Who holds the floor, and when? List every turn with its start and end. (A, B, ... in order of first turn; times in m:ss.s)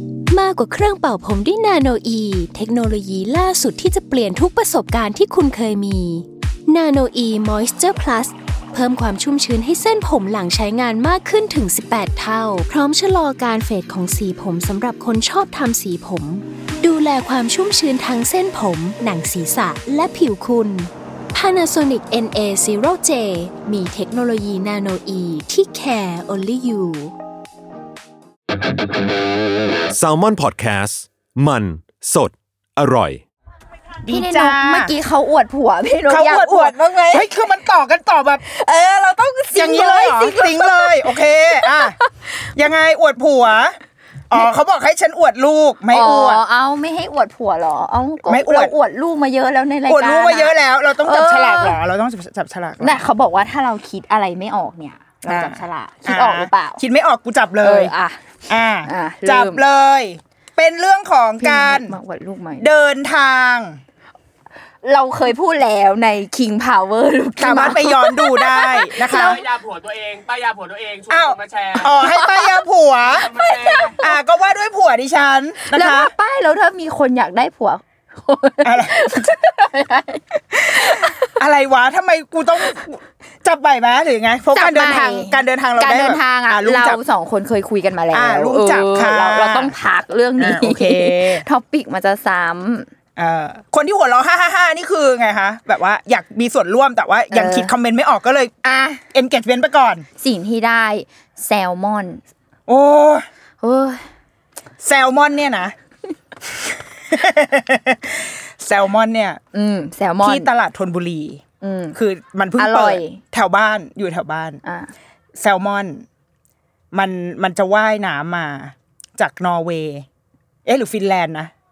0:00.3-0:27.1 A
0:29.9-0:33.2 B
0:34.0-0:34.9 C
0:34.1-0:37.4 D
0:36.1-0:38.4 C
0:38.4-0:42.0 D
0:39.5-0:42.0 C
0:42.5-0:43.8 C
0:44.3-0:46.4 C
0:45.9-0:51.8 D
0:48.2-0:48.7 C
0:49.9-0:53.0 C
0:52.8-0:56.8 D
0:55.2-0:57.9 C
0:57.6-0:58.2 D
0:58.5-1:02.0 C
0:58.8-0:59.6 D
1:01.4-1:02.7 D
1:02.6-1:03.8 C
1:04.8-1:09.5 D
1:07.4-1:09.4 C
1:09.6-1:11.6 E
1:11.1-1:16.1 C
1:11.8-1:12.6 D
1:13.3-1:14.2 D
1:15.7-1:21.3 D
1:18.6-1:19.3 C
1:21.0-1:27.0 C
1:24.5-1:32.9 D
1:28.1-1:29.8 C
1:30.4-1:31.4 C
1:33.2-1:38.5 C
1:37.3-1:37.7 D
1:38.6-1:39.0 D
1:39.1-1:40.0 C
1:40.2-1:42.2 D
1:42.7-1:43.2 C
1:43.6-1:44.0 D
1:44.8-1:45.7 C
1:47.1-1:49.4 C
1:49.5-1:50.5 D
1:50.2-1:51.4 C
1:51.6-1:52.0 D
1:51.9-1:54.6 C
1:52.6-1:53.2 D
1:54.6-1:54.9 D
1:55.4-1:56.0 C
1:56.9-2:00.0 C
2:00.6-2:01.5 C